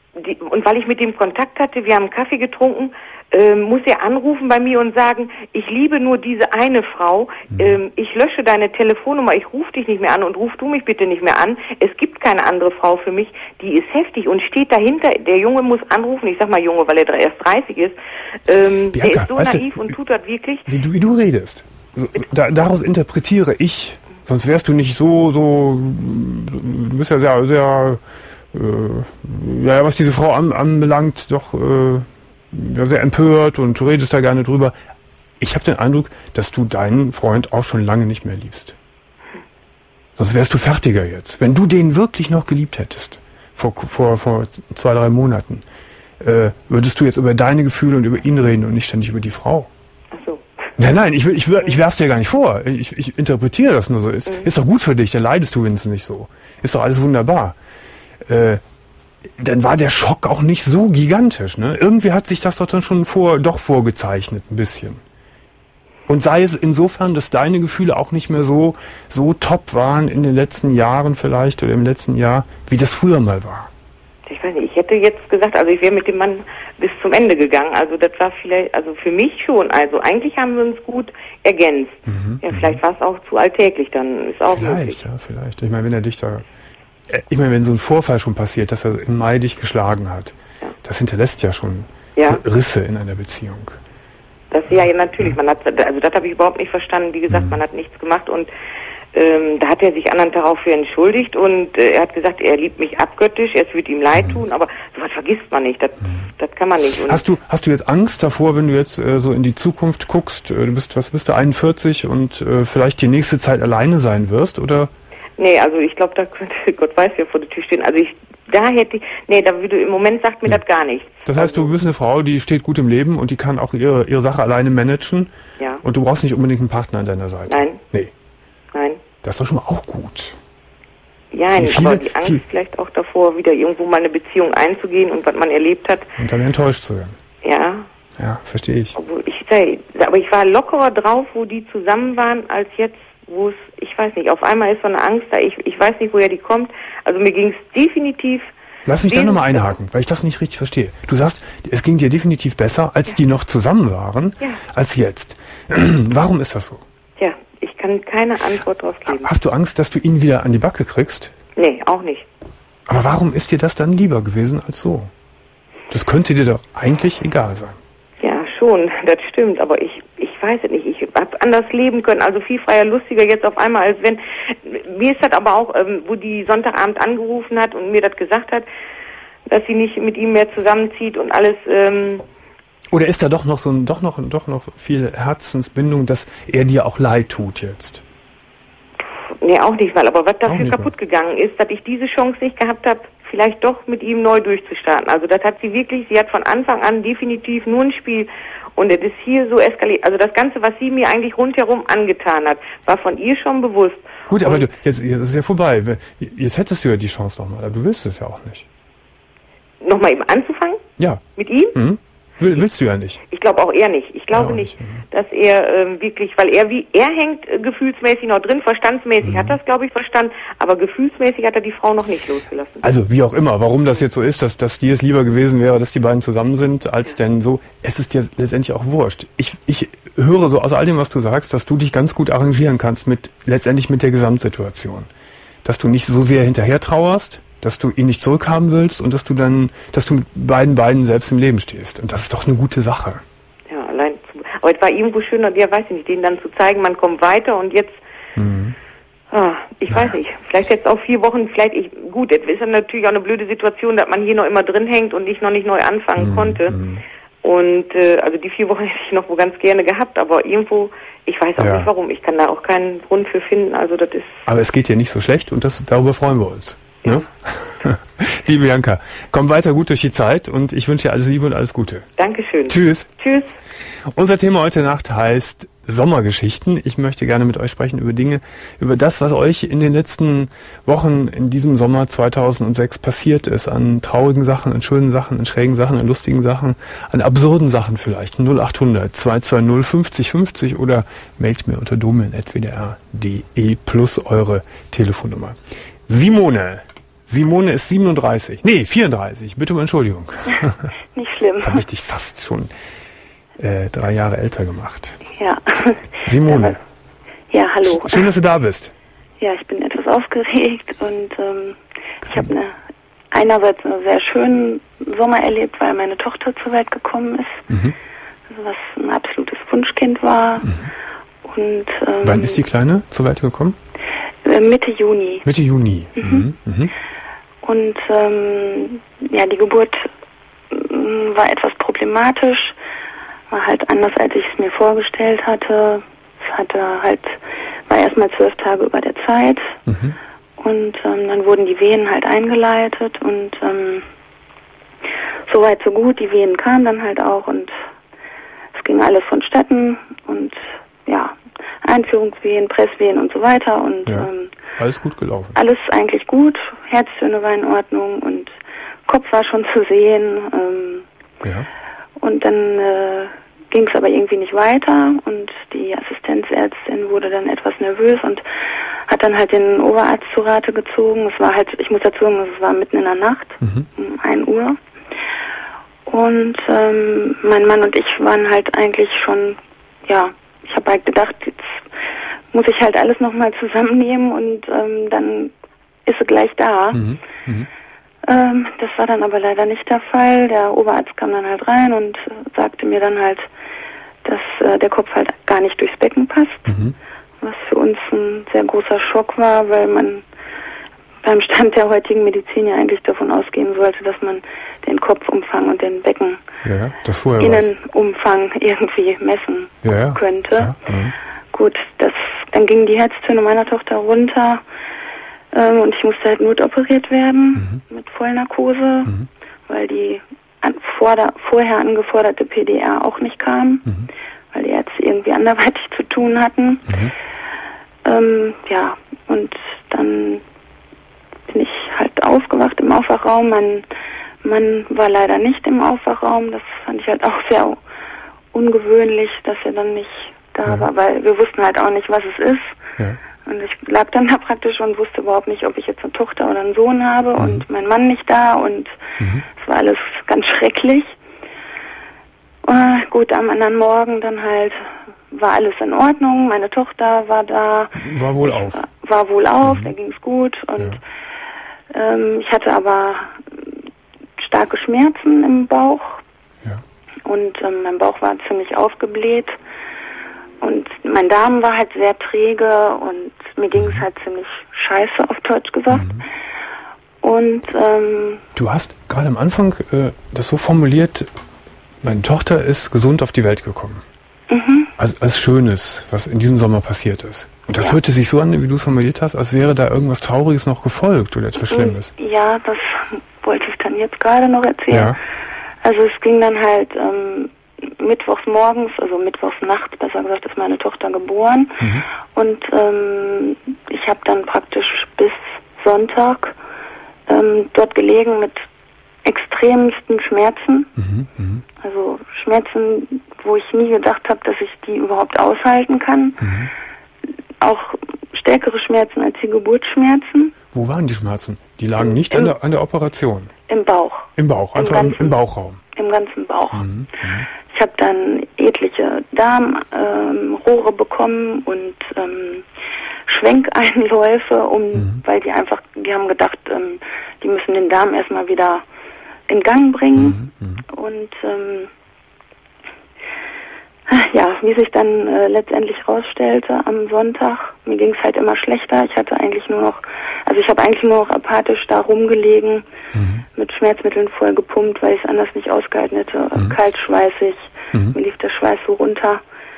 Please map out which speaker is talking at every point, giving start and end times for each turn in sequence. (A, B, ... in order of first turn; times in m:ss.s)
0:00.2-0:18.0 A
0:18.5-0:20.6 A
0:18.9-0:19.8 B
0:20.6-0:28.0 B
0:28.5-0:34.8 B
0:35.4-0:38.8 B
0:40.2-0:45.6 B
0:46.2-0:49.7 B
0:50.1-0:50.4 A
0:50.8-0:57.6 B
0:58.2-0:58.6 B
0:59.4-1:05.0 B
1:06.1-1:13.7 B
1:14.2-1:25.0 A
1:22.1-1:22.8 B
1:24.5-1:26.4 B
1:27.1-1:33.8 B
1:32.2-1:32.4 A
1:34.5-1:38.5 A
1:37.3-1:37.6 B
1:39.1-1:47.2 A
1:44.1-1:44.4 B
1:47.0-1:54.9 B
1:55.4-2:01.7 A
2:01.2-2:05.3 B
2:05.8-2:08.1 B
2:07.5-2:07.8 A
2:08.7-2:09.0 A
2:09.2-2:10.4 B
2:11.3-2:16.1 A
2:11.5-2:12.4 B
2:16.2-2:17.2 B
2:17.4-2:17.9 A
2:18.2-2:19.0 B
2:18.9-2:28.5 A
2:28.8-2:36.8 B
2:29.1-2:29.7 A
2:37.2-2:39.3 A
2:39.1-2:41.3 B
2:41.6-2:42.2 A
2:42.9-2:45.1 B
2:45.9-2:47.8 B
2:48.2-2:58.7 A
2:59.5-3:02.2 A
3:02.9-3:08.0 B
3:09.4-3:24.7 A
3:10.5-3:10.9 B
3:24.3-3:28.6 B
3:29.8-3:30.8 A
3:31.4-3:31.8 A
3:31.7-3:33.2 B
3:33.3-3:42.8 A
3:34.3-3:35.0 B
3:39.2-3:39.6 B
3:42.8-3:55.1 B
3:55.6-4:03.2 B
4:03.7-4:08.0 A
4:08.4-4:08.8 B
4:09.3-4:16.8 A
4:09.9-4:10.1 B
4:16.2-4:17.0 B
4:17.4-4:24.4 A
4:21.6-4:21.9 B
4:24.4-4:32.0 B
4:32.2-4:33.5 A
4:32.7-4:33.1 B
4:34.1-5:00.9 B
5:01.1-5:01.8 C
5:01.6-5:02.7 B
5:03.6-5:05.2 B
5:05.4-5:06.8 C
5:06.2-5:06.8 B
5:07.5-5:08.3 C
5:07.8-5:08.9 B
5:09.4-5:12.8 C
5:13.3-5:17.7 C
5:17.7-5:18.0 B
5:18.5-5:20.7 C
5:21.4-5:22.6 C
5:22.2-5:23.8 B
5:24.4-5:25.4 C
5:25.4-5:26.9 B
5:26.2-5:26.5 C
5:27.6-5:30.1 C
5:30.7-5:32.7 C
5:33.5-5:37.4 C
5:37.9-5:39.8 C
5:39.9-5:40.2 B
5:40.6-5:44.0 C
5:45.5-5:47.7 C
5:48.7-5:54.6 C
5:54.1-5:55.6 B
5:55.5-5:58.6 C
5:59.1-6:01.0 C
6:01.4-6:01.7 B
6:02.2-6:08.4 C
6:09.1-6:14.8 C
6:16.1-6:21.8 C
6:22.5-6:25.5 C
6:26.0-6:27.0 C
6:26.9-6:27.7 B
6:28.2-6:33.5 C
6:34.2-6:36.8 C
6:36.7-6:36.9 B
6:37.4-6:40.2 C
6:41.2-6:46.4 C
6:46.6-6:47.7 B
6:47.4-6:50.8 C
6:49.8-6:51.1 B
6:51.5-6:54.6 C
6:55.5-7:03.8 C
7:04.5-7:07.0 C
7:08.0-7:10.4 C
7:11.5-7:13.8 C
7:14.4-7:17.8 C
7:18.5-7:22.8 C
7:23.4-7:29.0 C
7:27.4-7:27.6 B
7:29.2-7:29.4 B
7:29.5-7:31.1 C
7:32.6-7:41.0 C
7:38.0-7:38.8 B
7:39.6-7:39.9 B
7:41.9-7:43.4 C
7:44.4-7:46.2 C
7:47.2-7:49.6 C
7:50.6-7:56.2 C
7:53.8-7:54.0 B
7:55.9-7:56.2 B
7:57.2-7:58.4 C
7:58.6-8:01.3 B
8:02.0-8:04.0 B
8:04.5-8:04.9 C
8:05.0-8:12.1 B
8:11.6-8:15.2 C
8:14.9-8:15.2 B
8:15.8-8:26.5 C
8:21.8-8:22.0 B
8:27.3-8:28.6 C
8:29.2-8:30.9 C
8:31.0-8:31.6 B
8:31.8-8:36.5 C
8:36.4-8:36.7 B
8:37.6-8:40.5 C
8:40.7-8:43.5 B
8:42.0-8:42.5 C
8:43.7-8:45.4 C
8:44.4-8:45.8 B
8:45.9-8:46.9 C
8:46.7-8:47.4 B
8:47.6-8:52.6 C
8:53.3-8:58.8 C
8:54.9-8:55.2 B
8:59.5-9:01.9 C
9:00.2-9:00.8 B
9:04.1-9:12.8 C
9:13.1-9:13.4 B
9:13.5-9:19.4 C